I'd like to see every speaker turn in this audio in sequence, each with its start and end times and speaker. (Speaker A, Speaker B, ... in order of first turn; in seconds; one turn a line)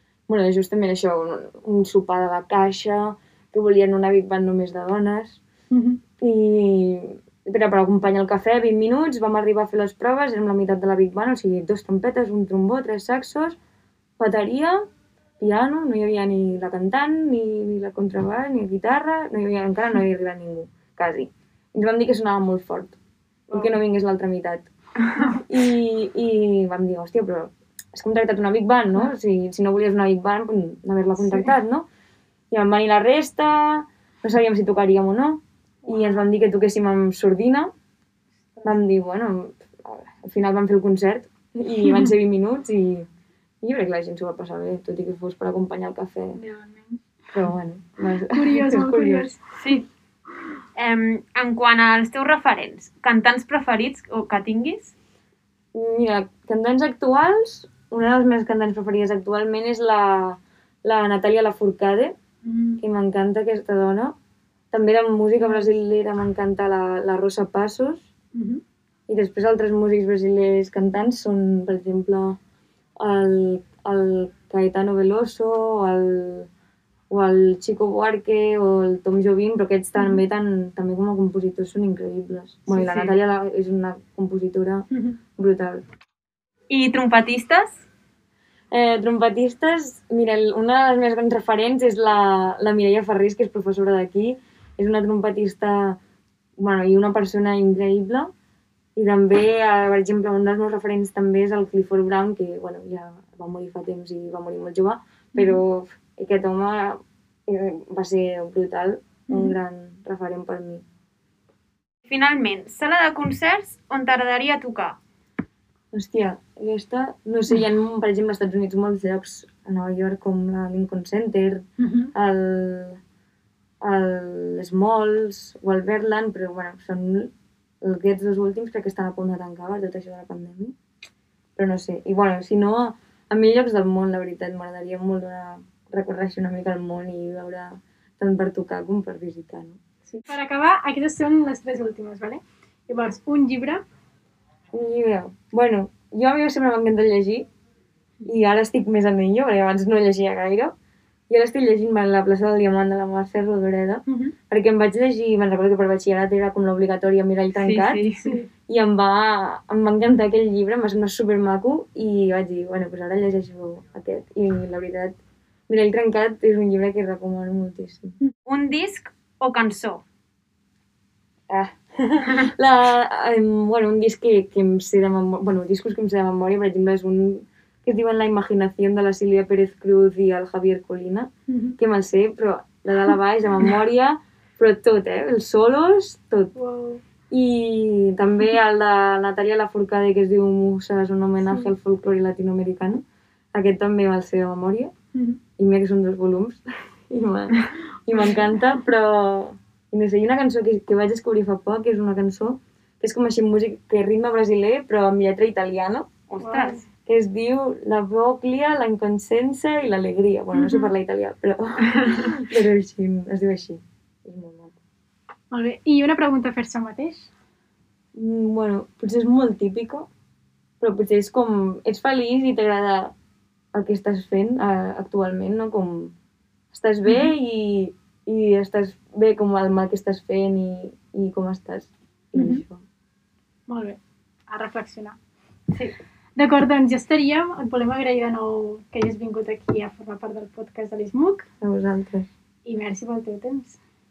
Speaker A: 0.3-5.4
Speaker B: 5.7-6.0
Speaker A: 6.2-13.6
Speaker A: 14.2-14.8
Speaker A: 15.4-23.0
Speaker B: 23.5-23.8
Speaker A: 23.5-24.7
Speaker A: 25.2-31.8
Speaker B: 31.2-31.5
Speaker A: 32.5-37.7
Speaker B: 35.8-36.3
Speaker B: 38.5-38.8
Speaker A: 38.6-43.1
Speaker B: 41.8-42.1
Speaker A: 43.6-46.4
Speaker B: 46.3-47.1
Speaker A: 47.3-49.3
Speaker B: 48.2-49.8
Speaker C: 49.5-49.9
Speaker C: 50.8-54.9
Speaker A: 55.7-62.1
Speaker B: 62.4-62.8
Speaker A: 62.8-64.1
Speaker A: 64.7-68.1
Speaker B: 65.4-65.7
Speaker B: 68.3-68.6
Speaker A: 69.1-72.4
Speaker A: 73.0-76.5
Speaker A: 77.1-85.8
Speaker B: 80.0-80.2
Speaker B: 82.7-83.1
Speaker B: 84.9-85.2
Speaker C: 86.7-87.7
Speaker A: 88.7-96.0
Speaker A: 96.6-98.3
Speaker A: 99.0-110.8
Speaker B: 105.3-105.6
Speaker B: 109.3-109.6
Speaker C: 112.1-115.0
Speaker A: 115.9-123.0
Speaker B: 121.8-122.1
Speaker A: 123.8-127.3
Speaker A: 127.8-130.7
Speaker A: 131.6-139.8
Speaker B: 140.1-143.8
Speaker A: 144.7-147.5
Speaker A: 148.2-150.7
Speaker A: 151.3-158.0
Speaker B: 154.1-154.3
Speaker C: 157.5-158.2
Speaker B: 158.2-158.5
Speaker A: 158.7-165.1
Speaker A: 165.7-168.2
Speaker C: 168.4-170.0
Speaker A: 171.5-186.5
Speaker B: 181.5-181.8
Speaker B: 186.5-187.0
Speaker A: 187.3-193.0
Speaker B: 191.4-191.7
Speaker A: 193.5-194.9
Speaker B: 195.1-195.4
Speaker A: 195.6-214.7
Speaker B: 198.2-198.4
Speaker C: 206.3-206.7
Speaker B: 206.4-206.8
Speaker B: 210.5-210.9
Speaker C: 212.0-212.3
Speaker B: 215.5-217.3
Speaker A: 218.1-220.1
Speaker A: 220.8-223.1
Speaker A: 223.7-226.1
Speaker A: 226.7-232.8
Speaker B: 232.3-232.6
Speaker B: 233.7-235.2
Speaker C: 235.7-235.9
Speaker B: 236.4-241.5
Speaker A: 241.6-242.3
Speaker B: 242.6-243.8